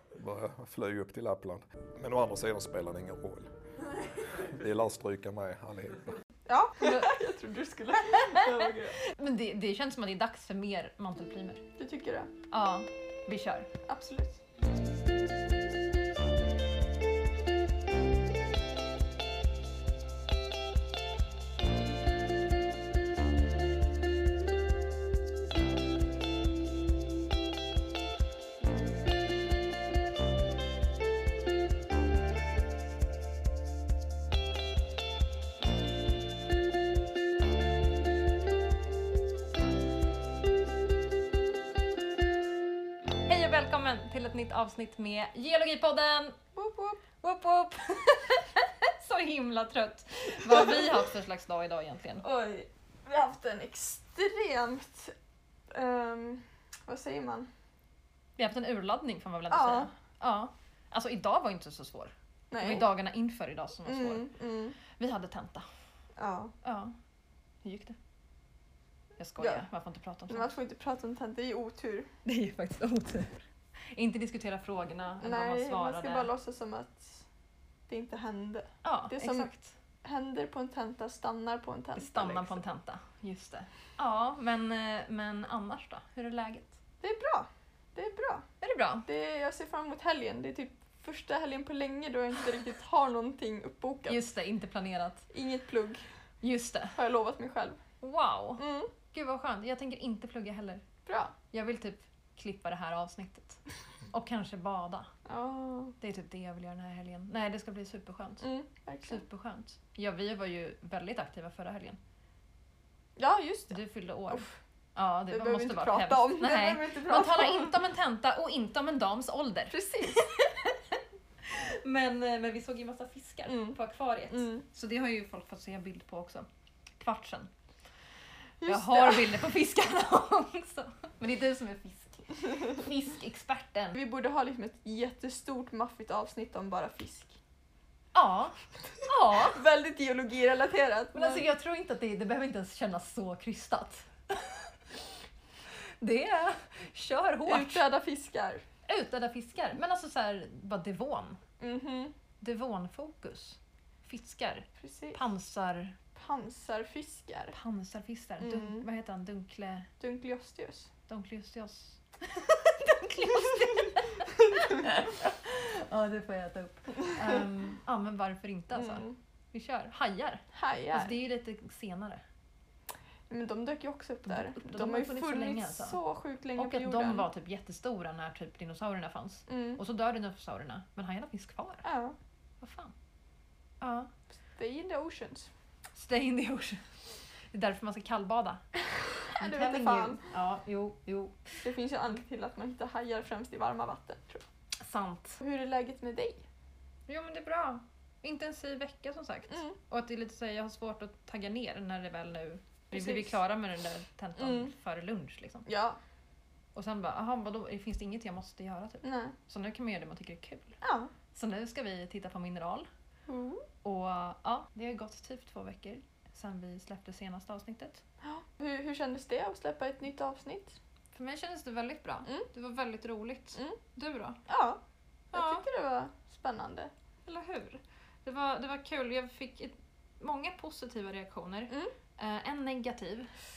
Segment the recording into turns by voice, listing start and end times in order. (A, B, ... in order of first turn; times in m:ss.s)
0:00.1-0:03.5 A
0:04.5-0:06.1 A
0:06.5-0:09.0 B
0:06.8-0:07.1 C
0:09.0-0:11.6 C
0:11.8-0:12.3 B
0:12.5-0:13.7 C
0:13.9-0:14.4 B
0:43.3-0:46.4 C
0:46.6-0:47.0 B
0:47.2-0:52.2 C
0:52.2-0:55.1 B
0:55.7-0:57.5 B
0:58.4-1:04.3 C
0:59.5-0:59.9 B
1:02.5-1:02.9 B
1:03.8-1:04.8 B
1:04.9-1:05.7 C
1:06.2-1:06.5 B
1:06.6-1:07.0 C
1:07.6-1:08.0 C
1:09.2-1:10.5 C
1:10.3-1:12.1 B
1:12.2-1:13.4 C
1:14.0-1:16.3 C
1:15.2-1:17.2 B
1:17.9-1:19.5 B
1:18.8-1:19.7 C
1:20.0-1:22.6 B
1:22.0-1:26.8 C
1:27.0-1:28.5 B
1:28.6-1:29.1 C
1:29.1-1:34.2 B
1:34.1-1:35.3 C
1:35.3-1:36.0 B
1:36.4-1:37.0 C
1:37.0-1:37.8 B
1:38.0-1:40.8 C
1:38.6-1:38.9 B
1:41.1-1:41.3 B
1:41.5-1:43.6 C
1:44.1-1:45.1 C
1:45.3-1:46.0 B
1:46.0-1:48.4 C
1:48.4-1:49.2 B
1:49.0-1:52.0 C
1:53.2-1:53.8 B
1:53.7-2:00.8 C
1:55.3-1:57.7 B
1:59.7-2:00.2 B
2:01.4-2:07.5 C
2:03.5-2:03.8 B
2:04.3-2:04.6 B
2:08.6-2:09.2 B
2:08.7-2:14.0 C
2:13.9-2:17.4 B
2:18.1-2:19.6 C
2:19.5-2:21.4 B
2:21.1-2:24.4 C
2:26.0-2:27.9 C
2:27.5-2:28.6 B
2:28.9-2:31.4 C
2:31.6-2:32.1 B
2:32.4-2:36.0 C
2:34.8-2:35.2 B
2:36.2-2:37.6 B
2:37.5-2:39.9 C
2:38.4-2:38.8 B
2:40.0-2:40.9 B
2:41.1-2:44.2 C
2:44.7-2:52.2 C
2:48.8-2:49.1 B
2:50.5-2:51.2 B
2:53.3-2:57.3 B
2:54.3-2:56.0 C
2:56.6-3:01.8 C
2:59.5-2:59.8 B
3:01.8-3:02.2 B
3:02.6-3:02.9 C
3:03.8-3:04.1 C
3:04.6-3:05.5 B
3:06.0-3:06.8 C
3:07.5-3:08.6 C
3:09.4-3:11.4 C
3:09.4-3:10.2 B
3:11.6-3:14.4 B
3:14.8-3:15.4 C
3:15.4-3:16.4 B
3:17.1-3:25.7 C
3:22.9-3:23.3 B
3:24.4-3:24.7 B
3:25.7-3:26.0 B
3:26.8-3:30.8 C
3:29.0-3:29.4 B
3:30.8-3:31.1 B
3:31.3-3:32.9 C
3:33.3-3:33.7 B
3:33.8-3:38.0 C
3:38.2-3:40.8 B
3:41.1-3:44.4 C
3:44.5-3:44.8 B
3:45.3-3:45.6 C
3:45.3-3:46.9 B
3:47.3-3:53.3 C